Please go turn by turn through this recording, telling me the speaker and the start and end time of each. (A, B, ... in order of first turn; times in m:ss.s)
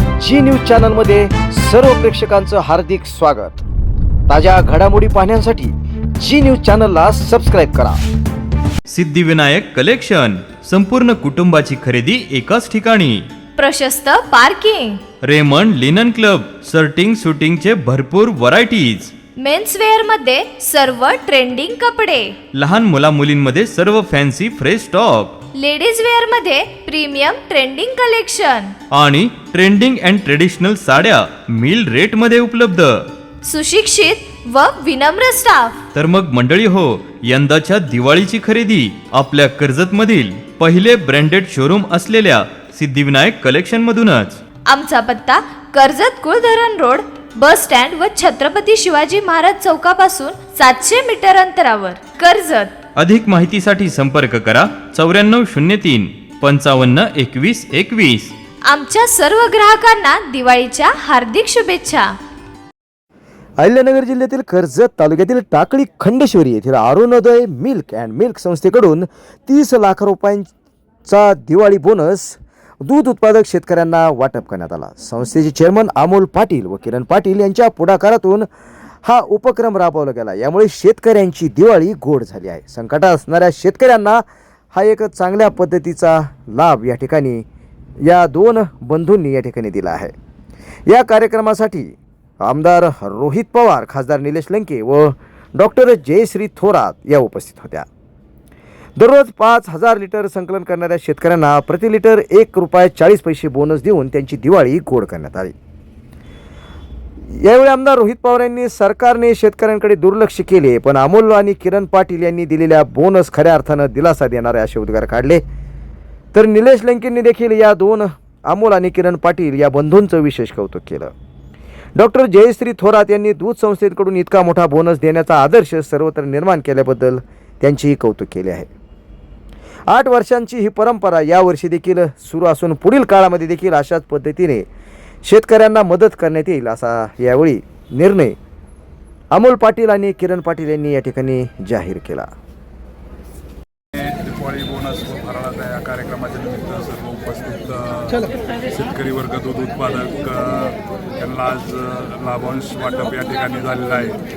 0:00.2-0:03.6 A
0:04.3-0:08.0 A
0:08.9-0:13.3 B
0:13.6-0:15.1 C
0:15.2-0:19.1 B
0:19.4-0:22.4 C
0:22.5-0:25.4 B
0:25.5-0:28.7 C
0:28.9-0:33.1 B
0:33.4-0:35.8 C
0:35.9-0:44.4 B
0:44.6-0:52.8 C
0:52.9-0:58.3 B
0:58.6-1:02.1 C
1:03.6-1:10.5 A
1:11.1-1:18.5 A
1:19.0-1:27.4 A
1:28.0-1:30.1 A
1:30.9-1:37.8 A
1:39.0-1:45.5 A
1:47.4-1:55.4 A
1:56.3-2:01.1 A
2:01.9-2:08.7 A
2:09.9-2:14.6 A
2:15.2-2:18.4 A
2:19.3-2:22.3 A
2:23.9-2:28.2 D
2:28.7-2:34.2 D